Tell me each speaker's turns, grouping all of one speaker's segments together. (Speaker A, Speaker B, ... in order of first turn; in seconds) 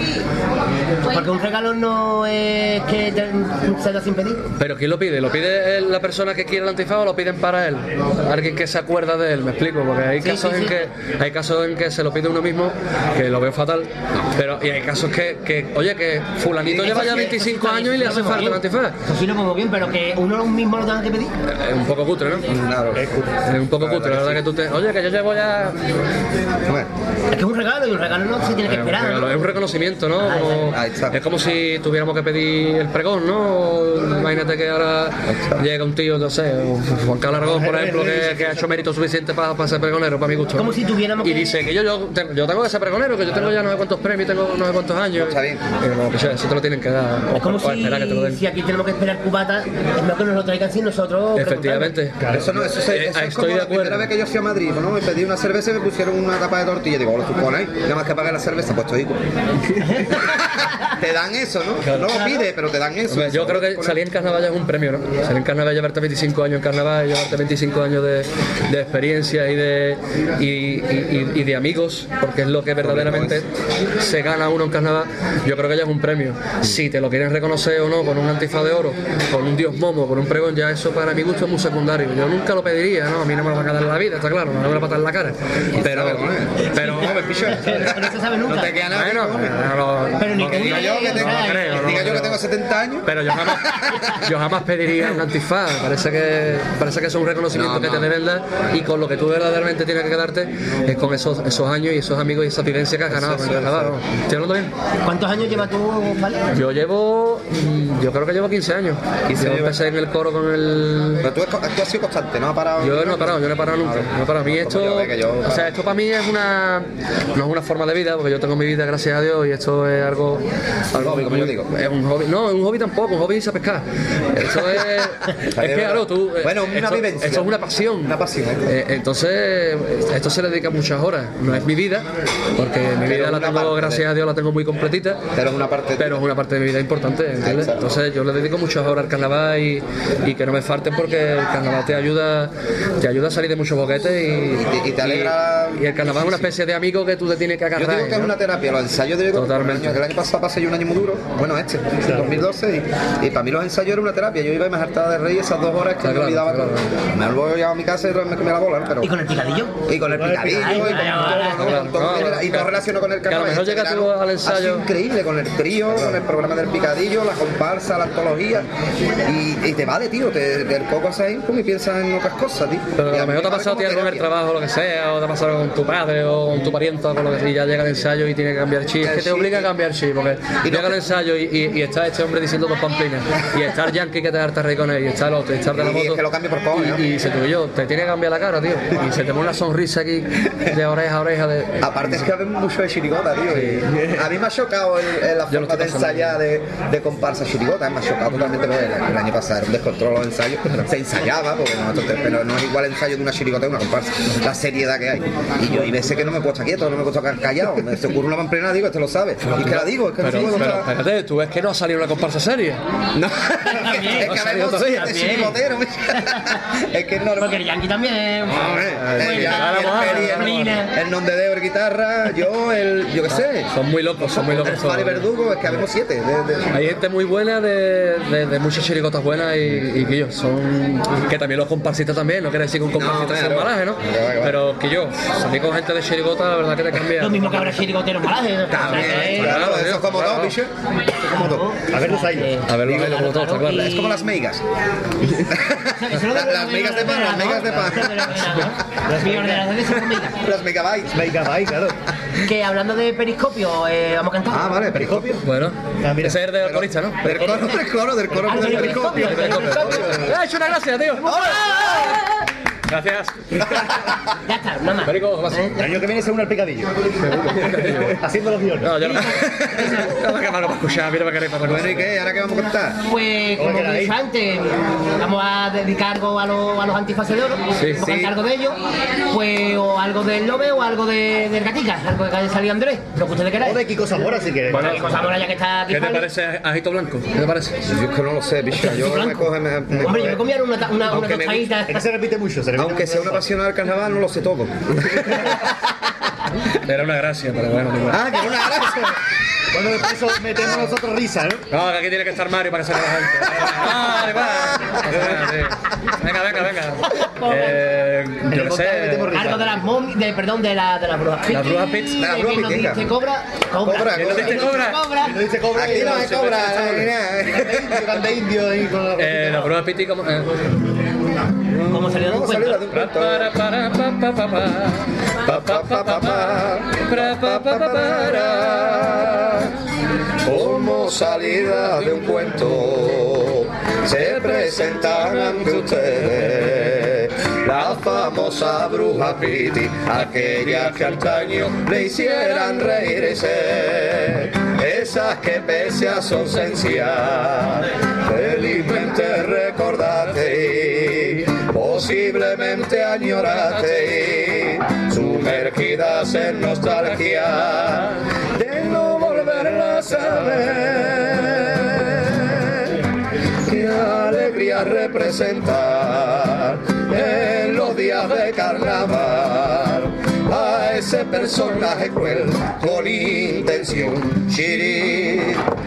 Speaker A: 1.1-4.4, 10.2-10.8, 16.7-21.3, 27.3-29.4, 30.2-30.7, 40.5-41.5, 47.3-51.9, 59.8-60.2, 87.5-88.8, 90.2-91.9, 105.0-106.5, 159.0-159.8, 160.5-161.7, 213.7-214.3, 214.9-215.6, 216.1-216.6, 217.4-220.9, 237.2-239.7, 241.2-244.2, 245.9-250.4, 252.4-254.9, 257.3-257.8, 258.4-260.3, 261.2-262.2, 264.5-265.9, 269.1-269.9, 273.1-283.8, 284.7-286.3, 288.8-292.0, 307.1-307.8, 309.3-315.4, 321.9-322.8
Speaker B: 4.6-19.0, 21.4-22.5, 23.4-25.8, 28.6-48.4, 51.4-54.1, 61.8-62.2, 63.1-73.5, 74.0-87.5, 88.9-92.4, 93.0-104.7, 106.5-111.3, 112.8-132.1, 132.6-135.2, 136.0-148.3, 149.3-150.0, 156.0-156.9, 161.2-164.9, 173.0-191.8, 193.5-194.0, 195.5-196.4, 209.4-212.8, 214.0-215.5, 219.0-220.8, 223.3-225.3, 226.7-237.8, 238.8-240.6, 242.7-244.0, 255.4-257.4, 258.7-263.8, 265.0-265.7, 267.2-268.2, 268.8-272.1, 277.8-278.2, 284.7-285.3, 285.9-287.8, 296.7-298.3, 301.7-309.6, 311.5-312.3, 314.1-315.0, 319.2-320.7, 322.9-329.6, 334.1-336.6, 340.3-341.4, 342.1-342.8, 357.8-358.0, 359.5-361.9
Speaker C: 16.6-17.3, 22.5-23.1, 23.7-24.4, 26.6-26.9, 30.7-31.2, 35.3-35.7, 45.2-45.6, 52.3-59.3, 60.2-64.0, 72.8-73.5, 85.8-89.6, 90.4-94.1, 97.5-98.1, 103.1-104.0, 109.3-109.8, 111.2-115.7, 120.9-121.7, 125.5-127.5, 128.0-128.6, 133.0-134.1, 135.3-136.2, 137.4-137.8, 144.6-146.5, 147.8-159.1, 159.9-168.7, 169.2-174.3, 179.0-179.7, 180.6-181.0, 185.7-187.0, 191.8-210.9, 213.2-217.6, 218.5-223.7, 224.2-226.9, 232.9-234.6, 238.7-240.7, 241.3-241.7, 242.8-244.6, 245.3-248.5, 250.4-251.2, 254.5-255.4, 256.6-260.3, 261.5-261.8, 271.6-273.0, 278.0-278.3, 287.9-290.4, 291.1-291.7, 292.8-295.5, 298.1-299.2, 304.5-305.4, 312.2-313.1, 313.8-314.7, 315.7-318.2, 321.8-323.5, 325.4-329.7, 330.4-363.0, 363.7-375.7
Speaker D: 22.9-23.3, 37.4-38.8, 152.1-152.3, 160.1-161.3, 241.9-242.5, 249.1-249.7, 251.1-252.0, 254.9-255.4, 256.0-256.4, 258.4-258.6, 265.8-266.9, 268.2-269.2, 273.6-274.2, 283.6-285.1, 291.9-293.5, 299.7-301.6, 308.5-309.8, 315.2-319.7